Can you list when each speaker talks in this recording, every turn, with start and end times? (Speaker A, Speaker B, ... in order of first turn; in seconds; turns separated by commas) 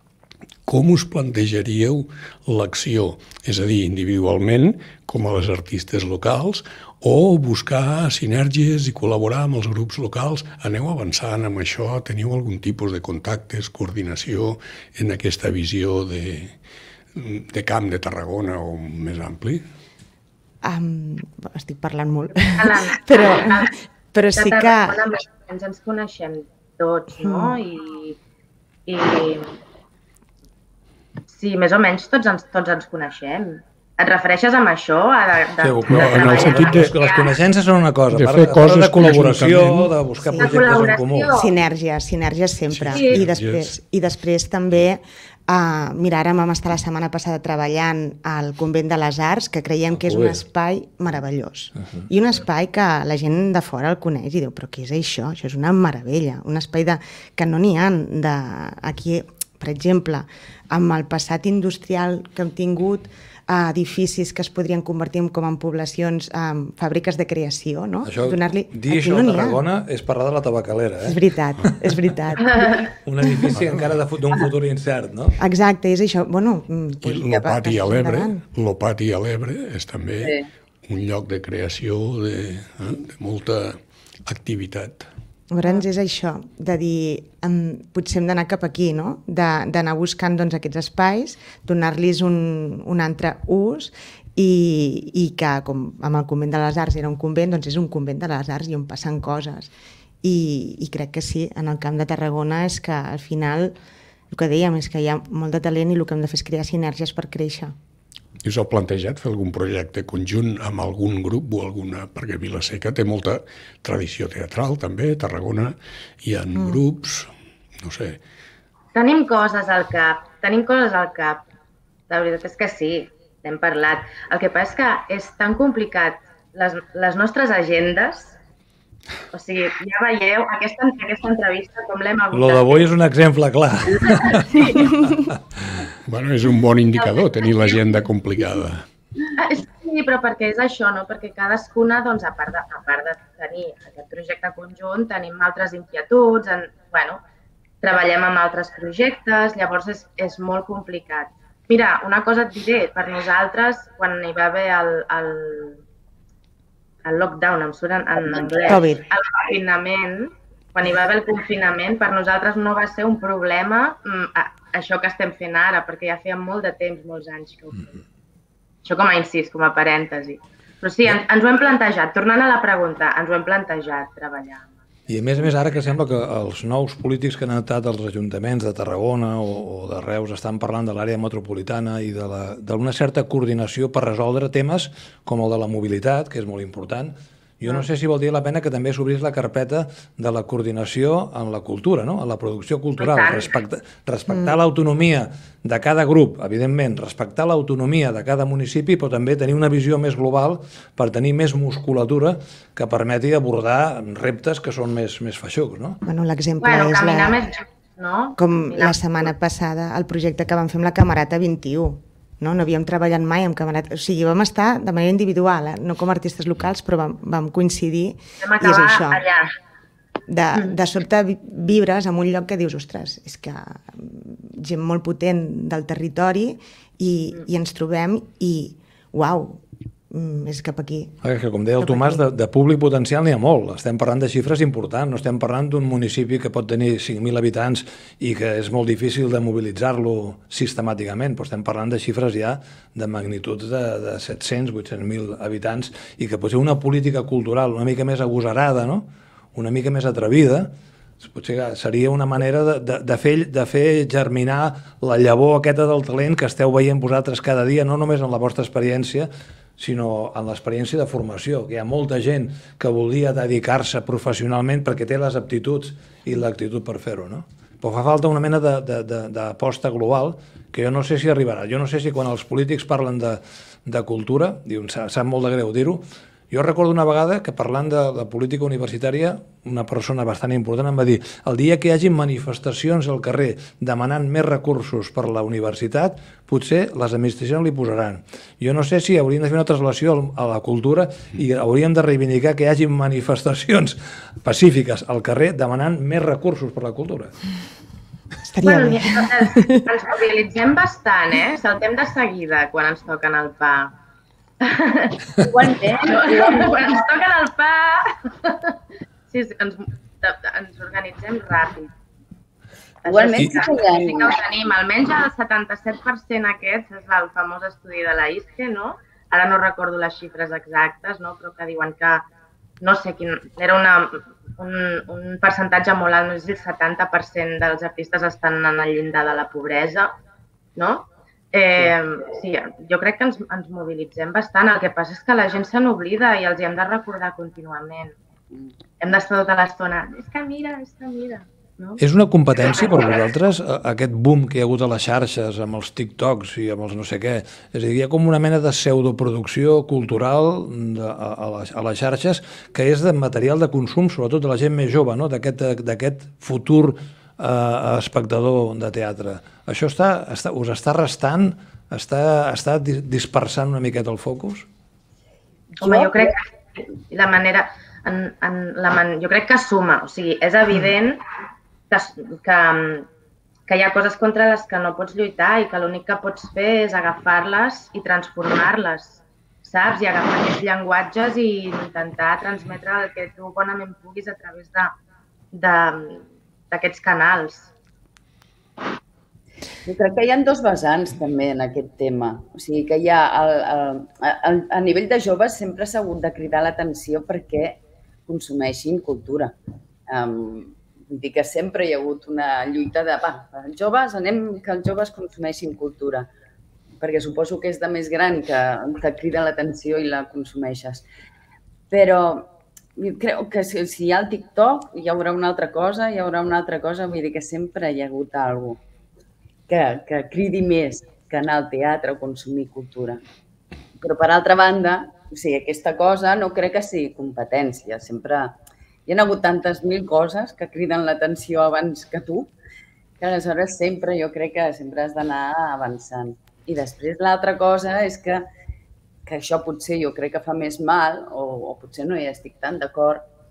Speaker A: 0.7-16.6, Speaker A: 17.1-19.6, Speaker B: 20.6-25.0, Speaker C: 22.6-23.7, Speaker C: 24.4-28.2, Speaker B: 27.2-27.6, Speaker C: 28.9-29.6, Speaker C: 31.3-37.3, Speaker D: 35.6-41.3, Speaker A: 35.8-37.0, Speaker A: 38.1-40.0, Speaker B: 40.3-40.6, Speaker C: 40.4-41.5, Speaker B: 41.3-69.6, Speaker A: 42.7-43.7, Speaker C: 42.9-43.2, Speaker D: 50.0-50.4, Speaker D: 68.0-71.2, Speaker B: 71.0-72.7, Speaker D: 73.0-75.4, Speaker B: 75.4-78.4, Speaker A: 77.0-85.1, Speaker E: 80.2-80.5, Speaker B: 85.5-103.8, Speaker B: 104.3-107.8, Speaker A: 108.4-117.3, Speaker B: 116.5-116.8, Speaker A: 117.8-118.2, Speaker C: 118.9-121.4, Speaker C: 122.1-128.3, Speaker C: 129.3-132.9, Speaker D: 132.3-135.2, Speaker C: 134.1-134.8, Speaker A: 136.1-138.8, Speaker C: 137.1-137.8, Speaker C: 139.4-147.2, Speaker C: 147.8-155.8, Speaker C: 157.1-168.0, Speaker B: 158.6-159.0, Speaker C: 168.8-174.7, Speaker D: 175.1-206.0, Speaker C: 193.0-193.5, Speaker B: 194.3-194.6, Speaker B: 206.1-207.4, Speaker C: 206.6-209.0, Speaker B: 208.4-219.2, Speaker C: 218.4-219.5, Speaker B: 220.3-231.1, Speaker D: 231.2-250.7, Speaker B: 231.8-232.2, Speaker D: 251.2-297.3, Speaker B: 298.5-299.8, Speaker C: 298.6-303.9, Speaker C: 304.6-305.2, Speaker E: 305.4-306.8, Speaker C: 306.0-308.8, Speaker C: 309.3-311.9, Speaker C: 313.0-322.3, Speaker E: 313.1-314.4, Speaker C: 322.8-330.1, Speaker C: 330.8-338.2, Speaker C: 339.0-342.0, Speaker D: 342.0-364.7, Speaker C: 342.6-343.1, Speaker C: 365.8-371.2, Speaker E: 365.8-366.4, Speaker C: 371.9-373.1, Speaker C: 373.7-384.9, Speaker C: 385.5-387.7, Speaker E: 389.9-399.5, Speaker E: 400.1-406.3, Speaker E: 407.0-411.1, Speaker E: 411.9-418.8, Speaker E: 419.7-423.2, Speaker E: 424.0-432.5, Speaker E: 433.2-438.5, Speaker E: 439.3-443.3